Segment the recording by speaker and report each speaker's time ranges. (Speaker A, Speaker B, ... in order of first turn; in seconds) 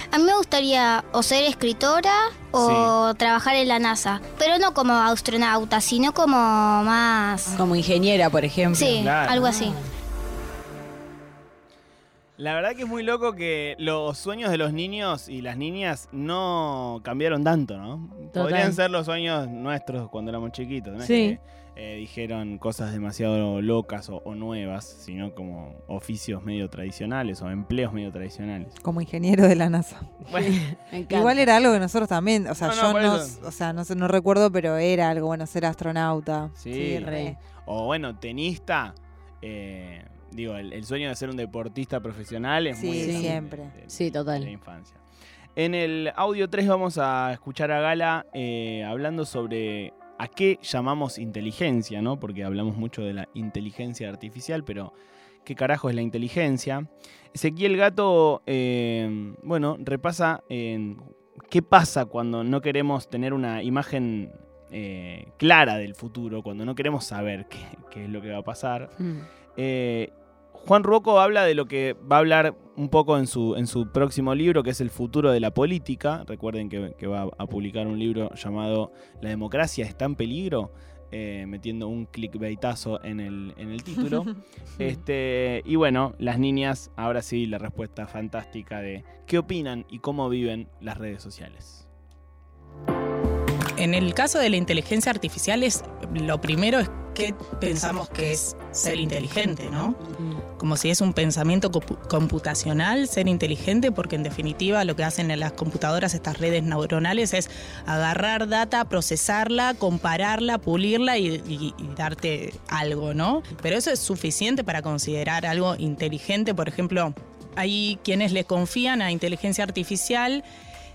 Speaker A: 0.1-7.6, 8.7-9.8
Speaker B: 2.6-2.9, 8.8-9.8, 12.4-28.7, 30.3-30.7, 32.6-33.5, 36.5-45.0, 45.5-68.9, 69.6-91.9
Speaker C: 7.5-8.9, 18.3-18.8, 21.0-21.4, 30.4-31.5, 37.1-37.3, 43.9-44.5
Speaker D: 28.8-37.4, 42.7-43.8
Speaker E: 93.8-100.0, 100.5-120.4